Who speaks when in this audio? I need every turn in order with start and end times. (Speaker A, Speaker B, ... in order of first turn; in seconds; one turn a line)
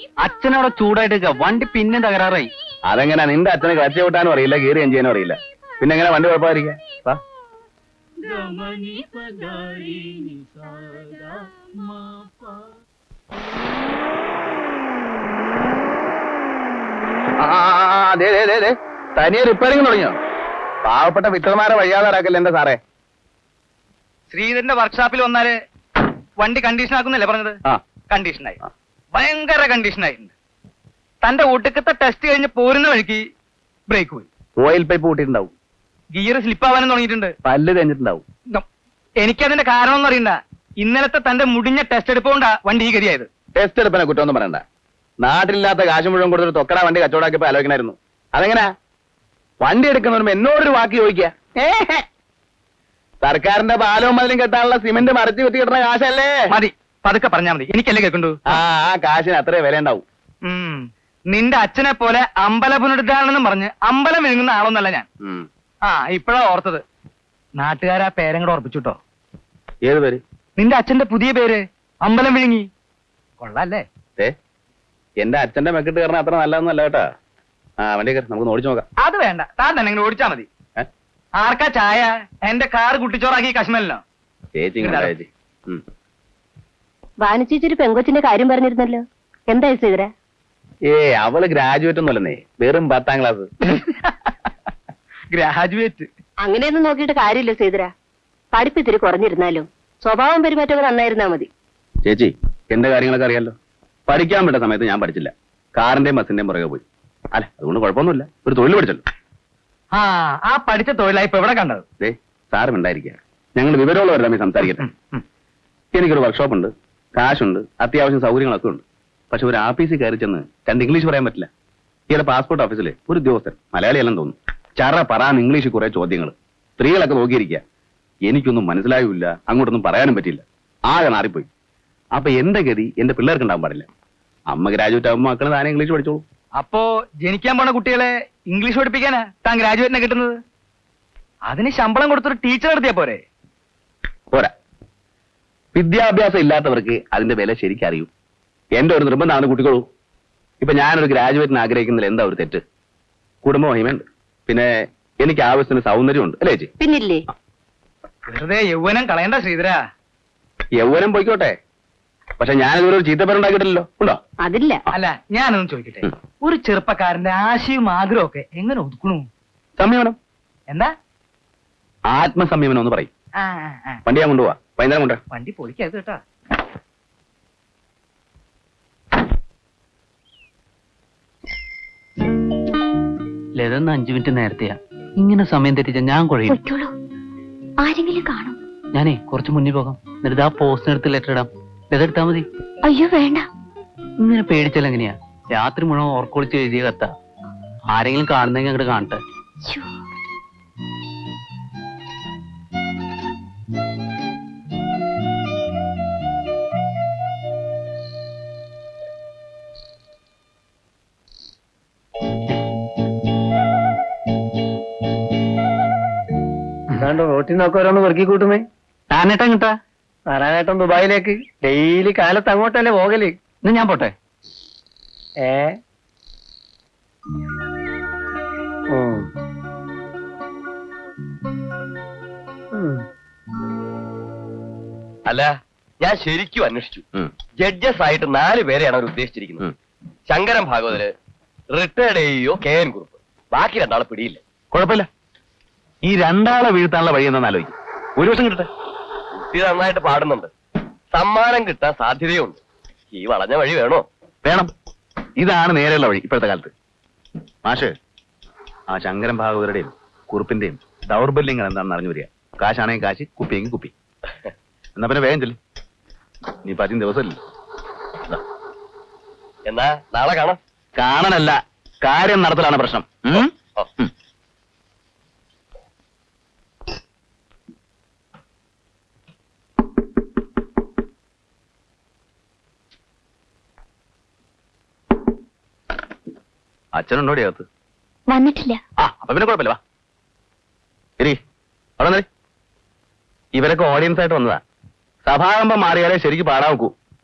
Speaker A: 0.2-2.4
Speaker B: 2.9-7.2
Speaker B: 17.4-20.2
Speaker B: 20.8-22.8
Speaker C: 24.3-25.6
Speaker C: 26.4-28.6
Speaker C: 29.1-30.3
Speaker C: 31.2-33.3
Speaker C: 33.9-34.3
Speaker B: 34.6-35.5
Speaker C: 36.1-37.3
Speaker B: 37.4-38.2
Speaker C: 39.2-43.3
Speaker B: 43.5-44.6
Speaker B: 45.2-48.7
Speaker B: 49.6-52.0
Speaker B: 53.2-56.6
Speaker C: 56.5-58.4
Speaker B: 58.5-60.0
Speaker C: 60.5-65.0
Speaker C: 65.8-66.8
Speaker C: 67.6-69.0
Speaker B: 69.8-70.2
Speaker C: 70.6-72.7
Speaker C: 73.4-73.8
Speaker B: 75.2-77.0
Speaker B: 77.8-78.8
Speaker C: 79.0-80.5
Speaker C: 81.4-84.0
Speaker B: 84.5-85.8
Speaker C: 84.8-85.1
Speaker D: 87.2-90.1
Speaker B: 90.9-93.5
Speaker C: 95.3-96.1
Speaker D: 96.4-97.9
Speaker D: 98.5-101.5
Speaker B: 102.0-103.5
Speaker B: 104.1-109.0
Speaker C: 109.9-111.8
Speaker B: 112.0-114.8
Speaker B: 116.0-121.5
Speaker B: 122.1-127.6
Speaker B: 128.2-131.5
Speaker B: 132.1-133.9
Speaker B: 134.5-136.2
Speaker C: 136.6-140.4
Speaker C: 141.5-143.2
Speaker B: 145.7-148.1
Speaker B: 148.7-149.8
Speaker B: 150.6-152.6
Speaker B: 153.4-154.7
Speaker B: 155.2-156.7
Speaker D: 156.8-157.2
Speaker C: 158.3-159.8
Speaker B: 160.8-161.5
Speaker B: 162.4-164.2
Speaker C: 164.9-169.3
Speaker B: 169.8-170.2
Speaker C: 170.7-170.9
Speaker B: 172.1-173.1
Speaker C: 173.4-174.0
Speaker B: 174.1-175.2
Speaker C: 175.3-176.2
Speaker A: 183.6-186.4
Speaker E: 186.4-186.9
Speaker E: 187.8-188.6
Speaker A: 189.2-190.3
Speaker A: 191.0-191.4
Speaker E: 192.8-193.5
Speaker A: 194.6-195.1
Speaker A: 196.0-196.8
Speaker A: 198.0-199.2
Speaker E: 199.6-199.9
Speaker F: 217.0-218.6
Speaker A: 219.1-219.7
Speaker F: 220.3-223.3
Speaker A: 223.7-224.1
Speaker F: 225.4-225.7
Speaker F: 228.9-229.2
Speaker G: 235.2-237.0
Speaker G: 237.6-239.6
Speaker G: 240.3-241.1
Speaker G: 241.7-244.4
Speaker B: 244.7-245.1
Speaker B: 246.1-248.7
Speaker G: 249.5-250.5
Speaker G: 251.1-252.6
Speaker G: 253.1-254.0
Speaker B: 254.4-254.7
Speaker B: 255.4-256.7
Speaker B: 257.6-257.9
Speaker B: 258.9-263.9
Speaker B: 265.0-265.6
Speaker B: 266.6-267.4
Speaker G: 269.7-270.6
Speaker B: 271.0-274.1
Speaker B: 286.9-287.6
Speaker E: 288.3-288.8
Speaker B: 289.0-289.8
Speaker B: 292.0-292.2
Speaker B: 293.5-294.6
Speaker B: 295.2-296.9